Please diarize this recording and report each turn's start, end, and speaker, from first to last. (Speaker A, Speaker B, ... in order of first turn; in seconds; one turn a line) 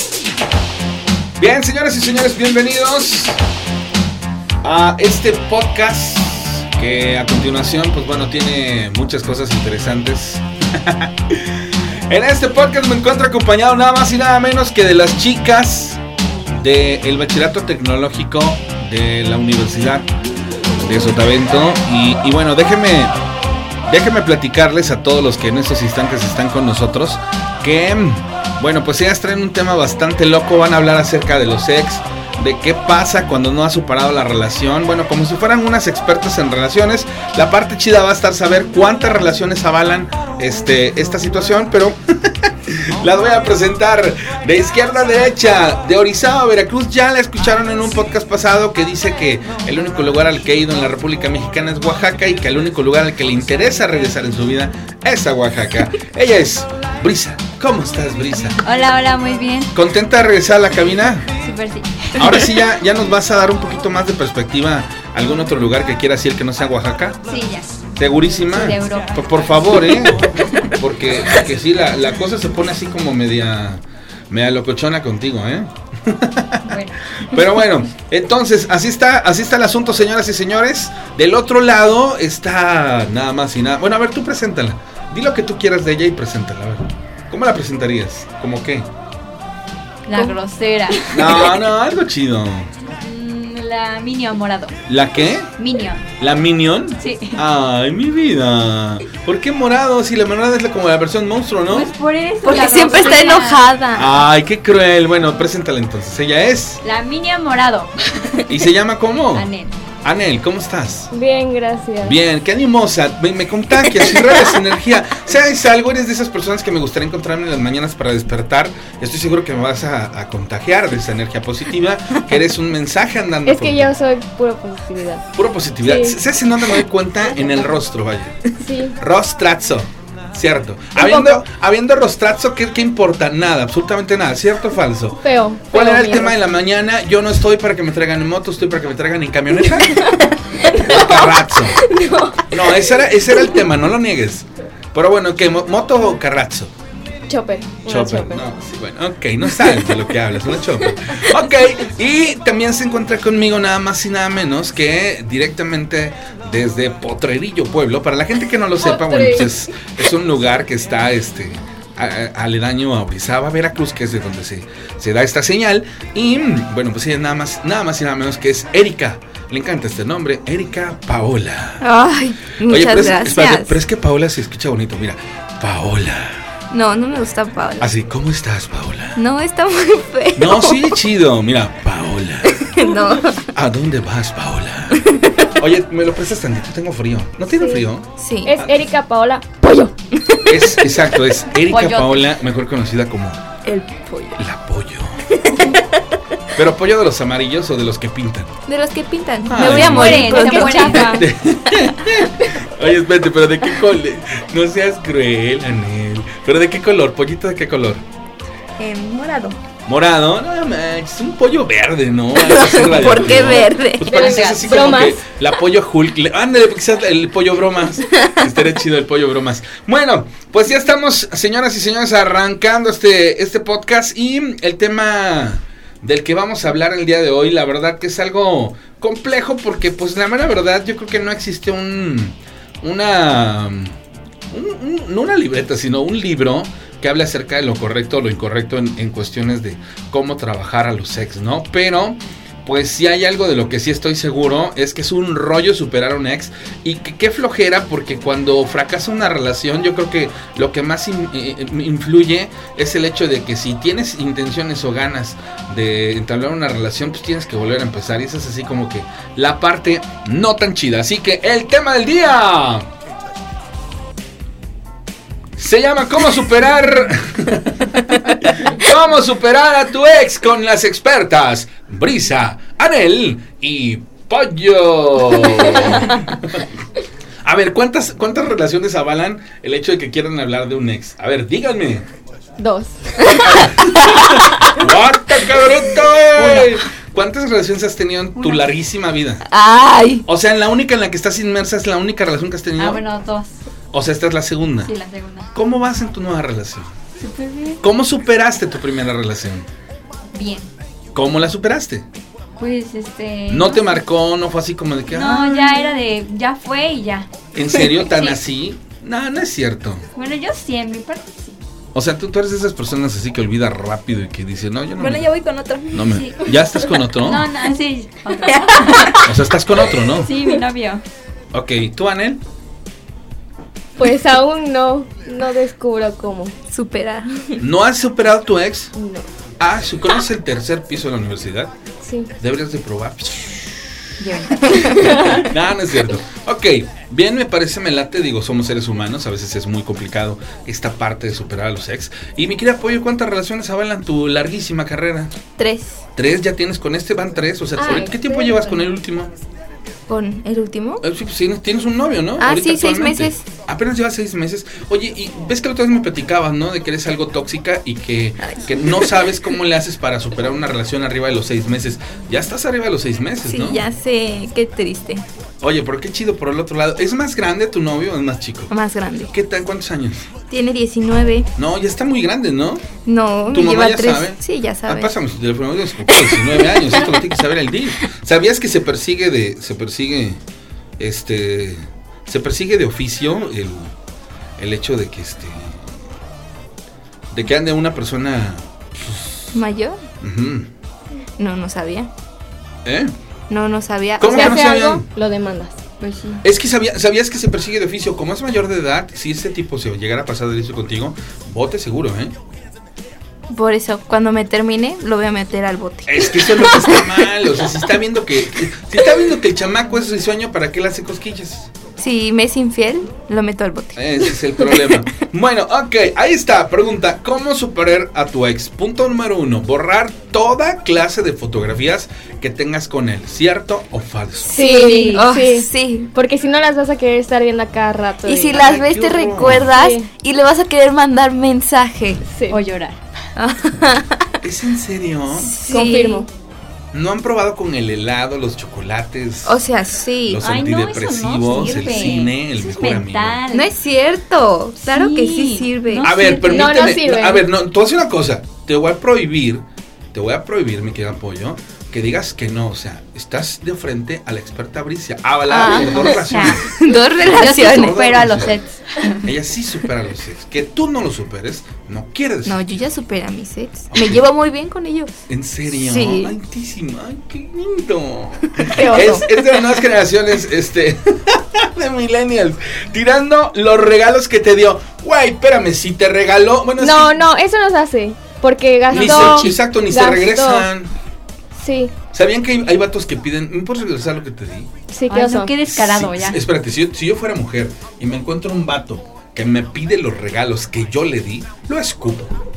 Speaker A: 1.4-3.4
Speaker A: 4.6-16.0
Speaker A: 16.6-20.1
Speaker A: 20.8-23.1
Speaker A: 23.9-58.6
Speaker B: 58.6-59.7
Speaker A: 59.7-61.3
Speaker B: 61.4-62.5
Speaker A: 62.2-67.2
Speaker B: 67.3-67.8
Speaker A: 68.0-88.9
Speaker B: 68.5-70.1
Speaker B: 76.6-77.0
Speaker B: 90.0-91.6
Speaker C: 90.9-91.3
Speaker A: 91.1-92.7
Speaker B: 92.9-94.8
Speaker A: 94.9-95.5
Speaker B: 95.6-96.1
Speaker A: 96.2-101.9
Speaker B: 97.0-97.4
Speaker B: 101.7-103.6
Speaker C: 102.4-104.1
Speaker A: 103.9-106.8
Speaker B: 106.8-108.1
Speaker A: 108.5-109.5
Speaker B: 109.3-109.8
Speaker A: 110.0-111.1
Speaker D: 111.1-112.2
Speaker A: 112.0-123.9
Speaker D: 123.4-125.2
Speaker A: 125.3-141.9
Speaker D: 125.8-126.2
Speaker D: 128.6-129.0
Speaker D: 130.9-131.4
Speaker D: 135.2-136.4
Speaker D: 139.9-142.6
Speaker A: 142.5-146.7
Speaker D: 147.3-148.4
Speaker A: 147.8-171.8
Speaker D: 158.8-159.7
Speaker C: 171.8-173.8
Speaker A: 172.7-176.4
Speaker C: 176.7-177.9
Speaker A: 177.8-179.2
Speaker C: 179.1-180.9
Speaker A: 180.3-182.7
Speaker C: 182.4-183.5
Speaker A: 183.5-188.8
Speaker C: 184.9-185.4
Speaker D: 187.5-187.8
Speaker C: 188.2-188.6
Speaker D: 188.4-189.9
Speaker C: 190.3-190.6
Speaker A: 190.4-193.4
Speaker B: 191.7-192.3
Speaker C: 193.6-194.4
Speaker A: 194.4-195.4
Speaker C: 195.4-196.0
Speaker A: 196.5-198.5
Speaker C: 198.7-201.2
Speaker A: 199.4-208.0
Speaker B: 199.5-201.3
Speaker D: 199.9-201.2
Speaker C: 208.8-209.6
Speaker A: 209.8-233.9
Speaker C: 212.3-214.3
Speaker D: 214.1-215.2
Speaker B: 214.1-215.1
Speaker C: 218.1-218.4
Speaker A: 234.5-262.9
Speaker A: 265.6-276.6
Speaker A: 277.4-282.0
Speaker D: 282.6-283.4
Speaker A: 283.2-289.4
Speaker B: 288.4-288.7
Speaker C: 289.5-290.2
Speaker A: 290.2-293.0
Speaker B: 292.8-293.5
Speaker A: 293.9-294.9
Speaker B: 294.8-295.5
Speaker A: 295.5-296.9
Speaker B: 297.2-297.8
Speaker A: 297.8-299.7
Speaker B: 300.3-300.7
Speaker A: 301.1-302.0
Speaker B: 302.6-304.0
Speaker A: 303.5-305.7
Speaker B: 305.1-307.3
Speaker A: 307.5-310.0
Speaker C: 307.7-308.0
Speaker B: 310.1-311.6
Speaker A: 311.9-315.3
Speaker C: 315.0-316.3
Speaker A: 315.9-317.5
Speaker B: 316.1-316.4
Speaker B: 317.1-321.0
Speaker C: 318.5-319.4
Speaker A: 319.2-320.3
Speaker A: 321.5-322.4
Speaker D: 324.0-326.5
Speaker C: 326.7-327.6
Speaker A: 327.6-328.9
Speaker D: 328.9-329.2
Speaker A: 329.6-331.7
Speaker D: 332.0-332.3
Speaker A: 332.4-333.9
Speaker B: 334.2-335.4
Speaker C: 334.7-335.4
Speaker D: 335.0-335.3
Speaker A: 335.0-345.3
Speaker C: 345.6-346.0
Speaker A: 346.1-349.3
Speaker D: 347.8-348.6
Speaker B: 347.8-348.1
Speaker C: 350.1-351.0
Speaker A: 351.0-363.8
Speaker C: 352.4-353.4
Speaker C: 358.8-359.3
Speaker C: 363.4-365.2
Speaker A: 365.6-368.7
Speaker C: 368.7-369.3
Speaker A: 369.3-370.3
Speaker C: 370.5-371.5
Speaker A: 371.6-372.9
Speaker C: 373.0-375.1
Speaker A: 373.5-380.4
Speaker C: 376.1-377.2
Speaker A: 381.0-383.9
Speaker A: 384.6-385.9
Speaker A: 387.3-389.5
Speaker C: 389.5-390.0
Speaker A: 390.2-390.7
Speaker C: 391.4-392.1
Speaker A: 392.8-393.1
Speaker C: 393.5-394.6
Speaker A: 394.2-395.1
Speaker D: 394.2-395.8
Speaker B: 396.0-396.4
Speaker A: 396.4-402.3
Speaker C: 403.5-407.3
Speaker A: 406.1-411.7
Speaker C: 412.0-415.0
Speaker A: 413.9-424.6
Speaker D: 424.5-428.6
Speaker C: 424.5-426.1
Speaker B: 424.6-425.2
Speaker C: 428.2-432.2
Speaker A: 428.5-429.7
Speaker D: 429.7-430.1
Speaker D: 432.2-432.6
Speaker B: 432.5-433.0
Speaker C: 433.4-434.4
Speaker A: 434.4-435.5
Speaker C: 435.3-436.2
Speaker D: 435.6-436.3
Speaker A: 436.9-439.6
Speaker C: 439.4-440.4
Speaker A: 440.2-443.4
Speaker B: 440.4-443.7
Speaker C: 443.5-446.1
Speaker B: 444.8-446.8
Speaker A: 446.0-458.6
Speaker D: 446.5-447.5
Speaker C: 455.5-458.2
Speaker B: 455.8-456.7
Speaker B: 457.2-459.3
Speaker A: 459.2-462.6
Speaker C: 462.4-465.1
Speaker A: 463.9-464.2
Speaker A: 465.3-477.1
Speaker C: 465.7-466.3
Speaker C: 468.6-469.2
Speaker D: 468.7-469.3
Speaker D: 476.8-480.7
Speaker A: 478.9-480.9
Speaker B: 478.9-479.5
Speaker D: 481.6-481.9
Speaker A: 482.1-484.7
Speaker D: 484.9-485.5
Speaker B: 485.1-486.4
Speaker A: 485.7-492.4